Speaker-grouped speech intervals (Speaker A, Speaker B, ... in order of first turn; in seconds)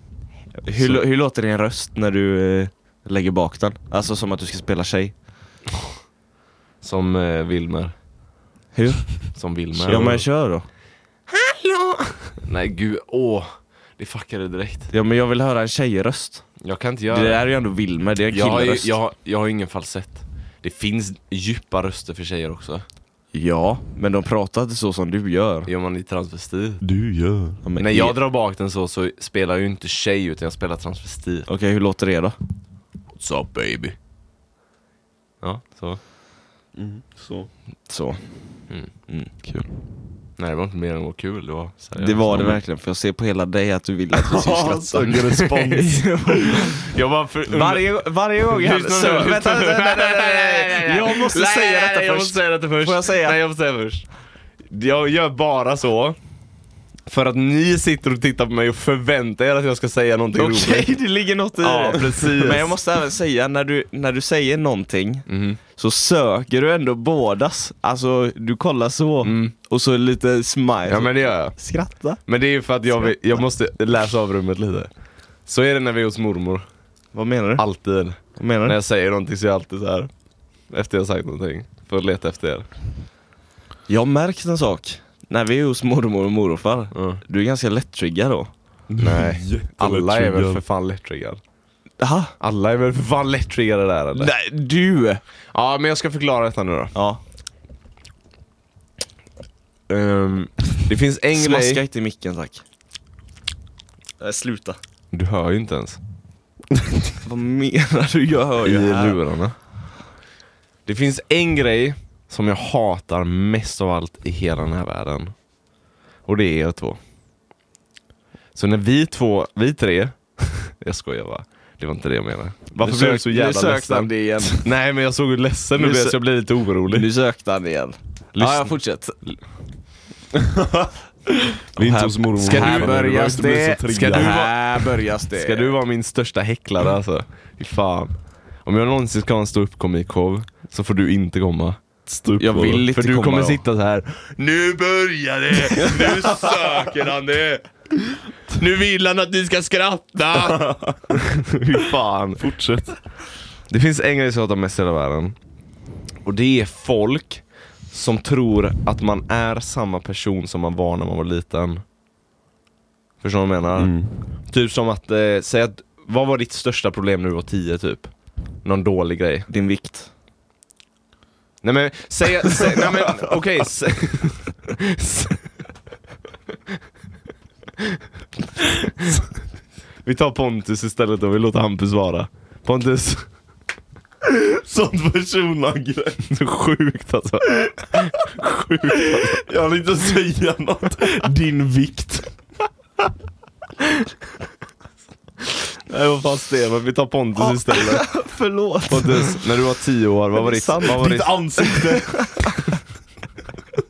Speaker A: 0.6-5.2, 8.7-10.7, 14.9-16.5, 17.1-18.9, 23.3-25.7, 27.6-28.1, 31.5-32.3, 37.9-39.3, 42.0-46.9, 47.5-53.4, 60.3-72.2, 72.9-73.4, 77.1-77.6, 78.3-78.8, 83.9-88.5, 92.0-92.3, 94.1-95.2, 96.9-97.2, 101.3-102.6, 104.2-104.8, 107.2-109.2, 122.8-124.6, 125.8-126.2, 126.9-129.1, 131.8-135.7, 142.4-143.6, 169.5-170.1, 197.4-199.4, 200.3-202.7
Speaker B: 0.7-1.0, 6.8-7.9, 9.3-10.2, 11.3-14.9, 16.6-17.5, 18.3-22.8, 25.7-26.8, 27.8-31.5, 33.1-33.9, 35.4-36.0, 40.4-42.6, 45.0-45.7, 46.4-54.0, 54.7-56.2, 57.0-60.9, 61.6-62.6, 65.3-65.6, 69.2-69.5, 70.9-71.6, 72.2-74.9, 75.5-76.7, 77.6-80.1, 80.7-82.7, 86.9-87.2, 89.0-91.4, 92.4-94.3, 95.5-96.9, 99.9-101.8, 105.1-106.0, 108.6-109.5, 110.8-115.3, 116.2-117.0, 118.5-127.1, 128.3-129.4, 132.4-141.8, 142.7-152.4, 153.7-155.3, 156.2-161.8, 163.2-169.5, 171.6-175.6, 178.6-179.2, 180.0-183.2, 186.2-189.4, 191.0-192.2, 195.8-198.1, 198.9-201.9
Speaker C: 26.8-27.6, 36.7-37.5, 39.4-39.7, 44.2-46.0, 61.9-62.7, 88.9-90.6, 130.3-130.9, 131.7-134.4, 142.1-142.8, 150.5-151.1, 152.4-152.9, 163.8-164.1, 184.4-186.2, 189.4-191.3, 201.0-202.0